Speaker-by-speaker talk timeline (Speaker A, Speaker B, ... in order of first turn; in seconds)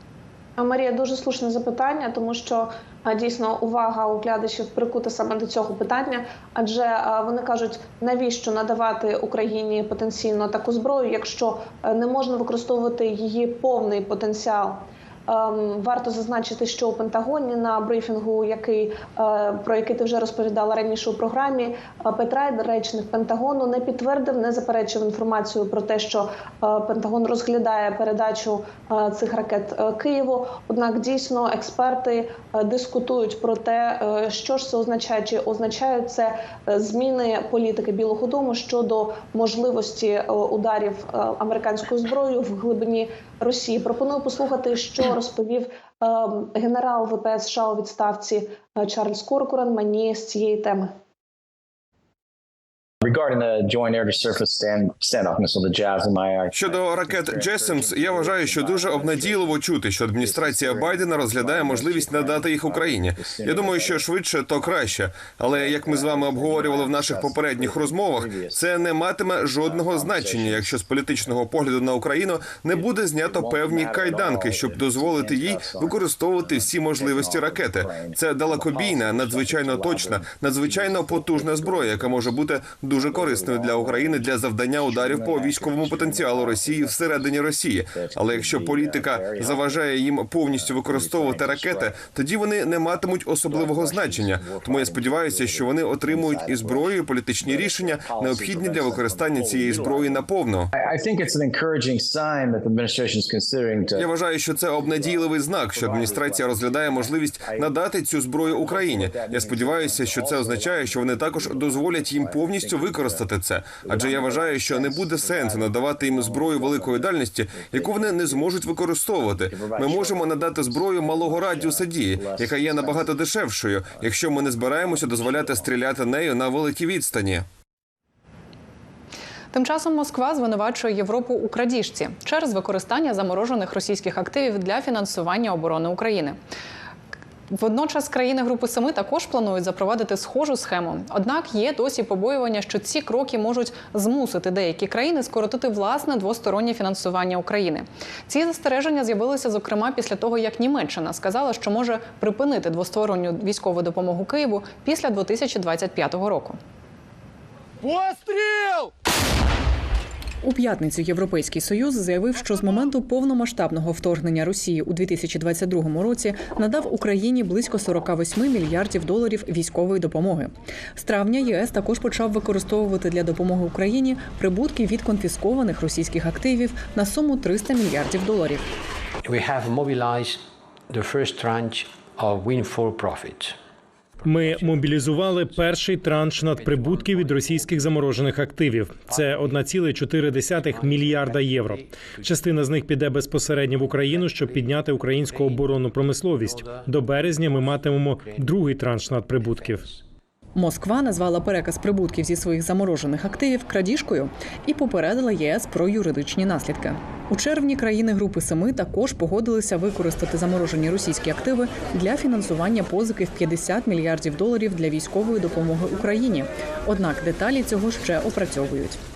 Speaker A: 0.6-50.9
Speaker B: 53.0-59.6, 60.2-64.1, 65.5-68.9, 69.6-71.4, 72.7-82.4, 83.0-87.3, 87.9-89.8, 90.5-92.0, 92.7-104.1, 104.8-107.8, 108.4-113.3, 113.8-118.6, 119.2-123.2, 123.9-125.7
Speaker C: 56.5-100.7, 104.0-127.5
Speaker D: 129.5-136.4, 137.5-156.6, 160.4-178.6, 200.6-219.0
Speaker E: 179.3-183.5, 184.2-185.8, 186.4-187.9, 189.1-189.7, 190.4-192.5, 193.7-195.7, 196.4-198.6, 199.4-200.0
Speaker F: 184.2-199.9